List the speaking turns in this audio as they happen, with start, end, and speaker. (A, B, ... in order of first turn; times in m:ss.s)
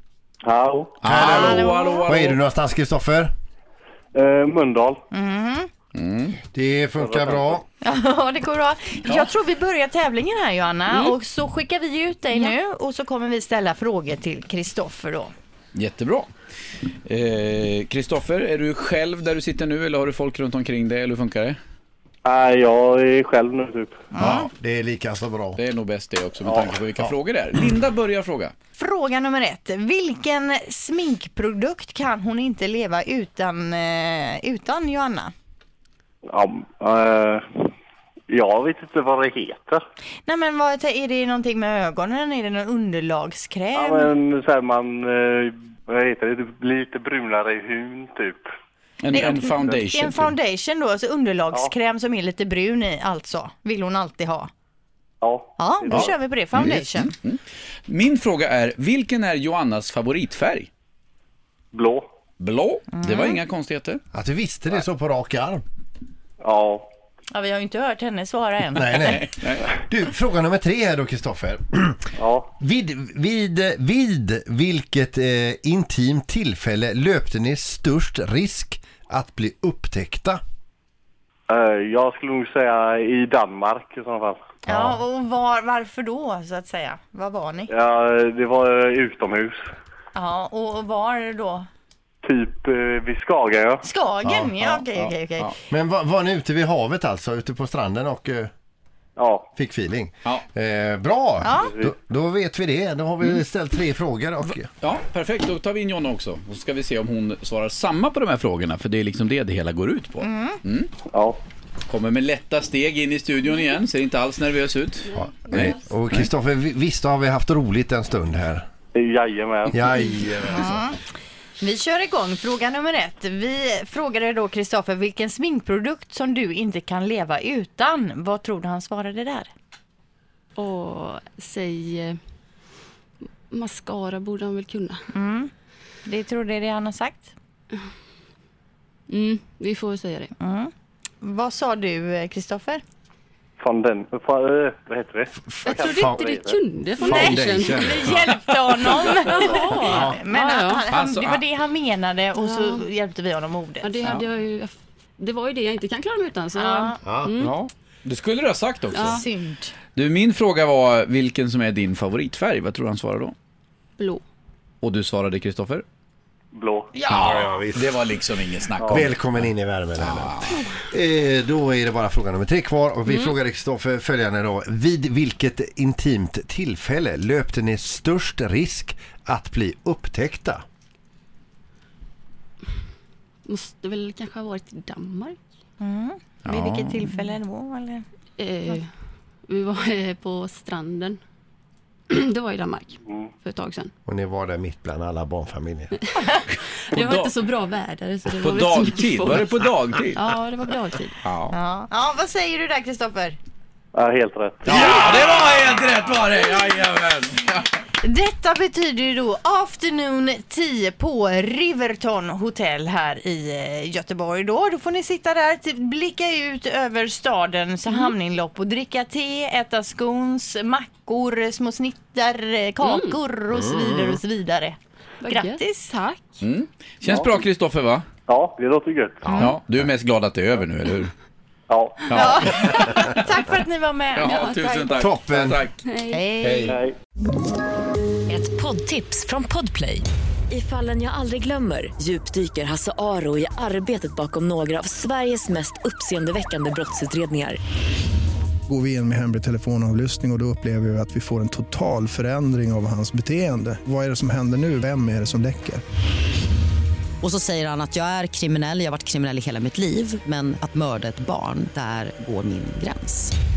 0:00.4-0:01.0 A
0:01.0-0:02.3 B
0:01.0-0:03.3 C
0:01.1-0:02.3 D
0:04.1-0:05.0 A
0:05.1-0:05.7 D
0:05.9-0:06.4 B
0:06.5-0:07.6 C
0:07.0-0:07.6 A
0:07.8-0:15.3 D
0:09.0-0:09.3 B
0:10.9-0:11.2 E
0:15.7-0:16.3 B
0:17.0-0:21.6 B
0:22.2-0:24.0 A
0:24.1-0:24.5 D
0:24.2-0:25.6 C
0:25.6-0:28.5 B
0:26.4-0:26.8 A
0:28.8-0:35.3 D
0:36.3-0:37.7 A
0:38.3-0:39.8 A
0:40.2-0:44.1 D
0:43.7-0:48.4 A
0:49.0-0:50.3 B
0:49.1-0:54.5 D
0:49.2-0:49.7 A
0:55.2-0:56.1 A
0:55.6-0:57.1 D
0:56.6-0:56.8 C
0:57.0-1:00.7 B
1:01.7-1:02.0 A
1:02.4-1:04.0 B
1:02.9-1:03.4 D
1:04.1-1:05.6 C
1:06.4-1:06.9 A
1:07.3-1:09.3 D
1:08.7-1:20.4 C
1:09.0-1:09.6 B
1:12.2-1:12.5 A
1:21.5-1:24.4 A
1:24.6-1:27.7 D
1:24.7-1:25.0 C
1:27.7-1:29.6 A
1:30.1-1:31.7 D
1:32.2-1:33.8 A
1:33.8-1:35.6 D
1:34.2-1:34.5 C
1:34.6-1:35.5 B
1:35.7-1:38.5 C
1:39.2-1:39.5 A
1:39.6-1:44.7 C
1:41.4-1:41.7 D
1:41.6-1:41.9 A
1:44.4-1:50.9 B
1:50.2-1:50.6 D
1:51.1-1:51.4 A
1:51.9-1:56.2 B
1:55.1-1:58.6 C
1:58.9-1:59.8 A
1:59.7-2:00.8 C
2:00.5-2:01.0 D
2:01.6-2:09.5 D
2:10.6-2:12.2 E
2:13.5-2:15.0 E
2:15.1-2:15.5 D
2:16.0-2:17.3 D
2:19.1-2:20.3 E
2:20.4-2:22.8 D
2:23.6-2:26.6 A
2:25.4-2:26.2 C
2:25.6-2:28.1 E
2:26.9-2:28.3 C
2:27.0-2:34.1 D
2:29.2-2:30.8 E
2:29.7-2:30.2 C
2:30.9-2:31.4 B
2:32.3-2:32.8 E
2:33.8-2:37.6 E
2:36.5-2:37.0 D
2:37.0-2:37.5 C
2:37.4-2:39.2 B
2:38.9-2:39.2 E
2:39.0-2:39.7 D
2:40.0-2:43.3 B
2:44.0-2:44.2 E
2:44.8-2:45.8 B
2:46.5-2:46.9 A
2:47.0-2:50.6 B
2:47.0-2:48.0 C
2:48.8-2:49.1 A
2:48.8-3:00.6 C
2:53.1-2:53.3 E
3:03.4-3:05.4 E
3:05.8-3:08.0 D
3:06.4-3:07.0 B
3:08.4-3:08.9 E
3:09.5-3:11.2 E
3:12.1-3:13.9 E
3:14.0-3:16.0 C
3:16.9-3:17.3 B
3:16.9-3:21.2 E
3:18.3-3:20.2 B
3:21.2-3:21.6 B
3:21.5-3:23.4 D
3:23.9-3:24.9 A
3:24.6-3:27.7 B
3:24.7-3:25.2 E
3:24.9-3:25.2 D
3:28.0-3:45.7 D
3:37.9-3:38.1 E
3:42.8-3:43.2 E
3:43.5-3:44.2 C
3:45.2-3:46.4 E
3:46.4-3:48.0 B
3:48.3-3:49.4 A
3:49.3-3:49.5 D
3:49.3-3:51.1 B
3:51.7-3:52.2 A
3:52.1-3:53.1 B
3:52.1-3:55.0 D
3:54.1-3:55.8 B
3:54.2-3:54.7 E
3:55.0-3:55.6 C
3:55.8-3:56.2 E
3:56.1-3:56.8 D
3:56.4-3:56.8 C
3:56.7-3:56.9 A
3:58.3-4:07.6 F
4:08.7-4:15.8 G
4:17.2-4:23.3 H